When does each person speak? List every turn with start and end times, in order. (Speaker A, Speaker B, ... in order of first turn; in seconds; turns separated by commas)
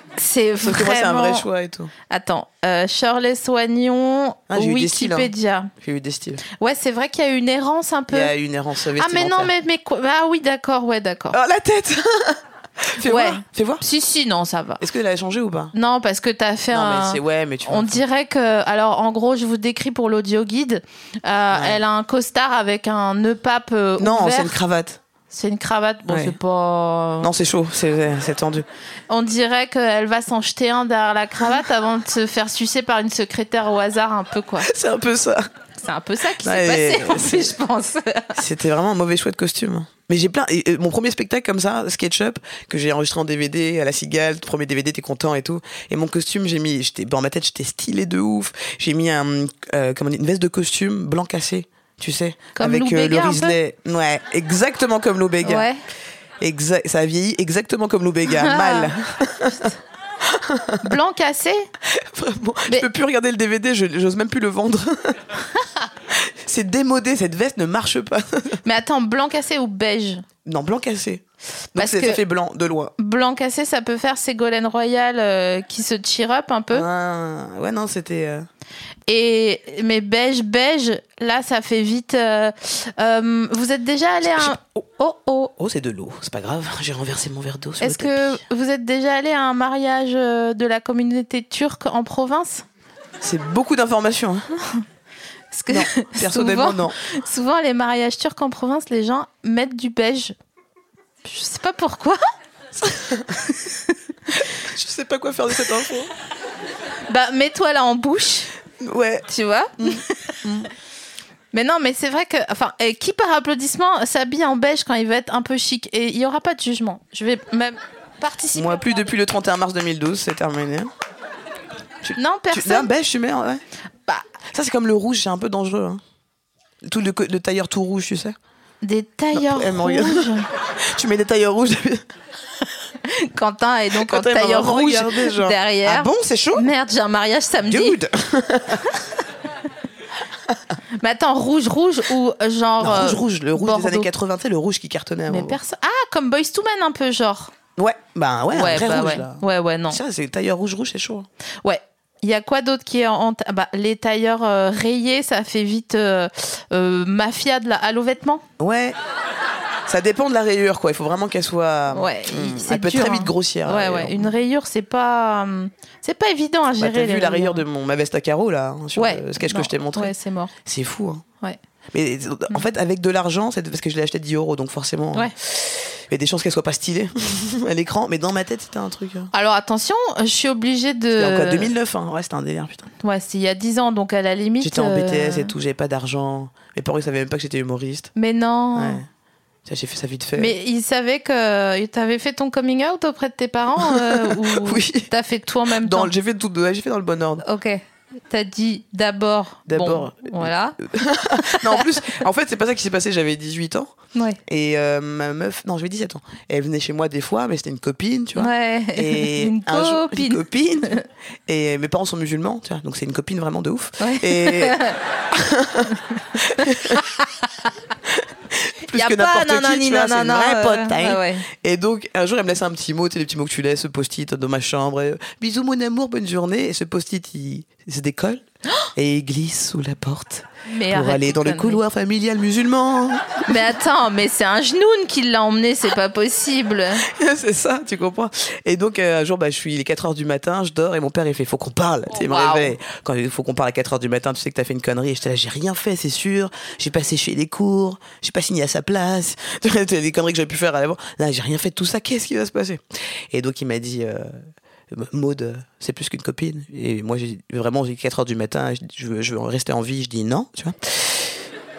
Speaker A: 0.2-1.5, Speaker B: 0.6-1.9, Speaker A: 2.1-5.7, Speaker B: 4.5-6.4, Speaker A: 6.5-8.3, Speaker B: 8.1-9.5, Speaker A: 9.0-11.4, Speaker B: 11.3-13.8, Speaker A: 13.0-14.8, Speaker B: 14.8-15.7, Speaker A: 15.7-24.6, Speaker B: 16.7-18.0, Speaker B: 21.5-21.8, Speaker B: 24.0-25.0, Speaker A: 25.3-27.3, Speaker B: 26.1-26.4, Speaker B: 27.2-28.7, Speaker A: 29.1-34.7, Speaker B: 34.6-35.5, Speaker A: 35.8-38.4, Speaker B: 36.4-37.5, Speaker B: 38.4-55.7, Speaker A: 52.5-53.6, Speaker A: 55.4-55.8, Speaker B: 56.4-61.0, Speaker A: 58.3-58.9, Speaker A: 60.8-61.7, Speaker B: 61.9-65.3, Speaker B: 66.1-68.6, Speaker A: 68.6-70.2, Speaker B: 70.4-71.2, Speaker B: 71.8-72.9, Speaker A: 71.8-72.2, Speaker A: 73.0-76.9, Speaker B: 76.7-78.5, Speaker A: 79.1-85.5, Speaker B: 84.2-84.8, Speaker B: 85.6-88.4, Speaker A: 87.8-92.7, Speaker B: 93.2-94.5, Speaker A: 95.5-100.3, Speaker B: 95.7-97.0, Speaker A: 101.2-102.2, Speaker B: 102.8-103.4, Speaker A: 103.5-104.0, Speaker B: 104.3-106.1, Speaker A: 107.1-108.5, Speaker B: 108.8-109.3, Speaker A: 109.3-110.4, Speaker B: 109.8-110.7, Speaker A: 111.5-119.0, Speaker B: 118.5-120.9, Speaker B: 122.0-123.6, Speaker A: 122.2-122.9, Speaker B: 124.5-126.0, Speaker B: 126.8-128.4, Speaker A: 128.8-130.5, Speaker B: 129.3-132.0, Speaker A: 133.0-138.0, Speaker B: 133.9-136.7, Speaker B: 137.7-138.9, Speaker A: 141.0-144.1, Speaker B: 142.8-145.6, Speaker A: 145.3-147.5, Speaker B: 147.8-151.3, Speaker A: 148.5-150.0, Speaker A: 151.6-158.4, Speaker B: 158.6-159.0, Speaker B: 159.9-164.3, Speaker A: 161.9-167.6, Speaker B: 166.8-171.2, Speaker A: 169.0-170.5, Speaker B: 171.9-179.3, Speaker A: 179.3-181.7, Speaker B: 181.2-182.9, Speaker A: 183.0-185.5, Speaker B: 184.6-188.1, Speaker A: 188.2-189.0, Speaker B: 188.8-189.1, Speaker B: 189.7-190.6, Speaker A: 190.4-196.1, Speaker B: 193.8-195.1, Speaker B: 195.7-197.4, Speaker A: 197.4-200.8, Speaker B: 199.7-203.9, Speaker A: 201.3-202.2, Speaker A: 204.1-204.4, Speaker B: 204.5-211.0, Speaker A: 208.4-211.0, Speaker B: 211.5-214.8, Speaker A: 214.0-215.0, Speaker B: 215.3-217.0, Speaker A: 216.6-217.3, Speaker B: 218.1-228.4, Speaker A: 218.9-221.5, Speaker B: 229.0-233.4, Speaker A: 230.7-231.8, Speaker A: 233.5-237.1, Speaker B: 237.1-261.4, Speaker A: 242.1-242.8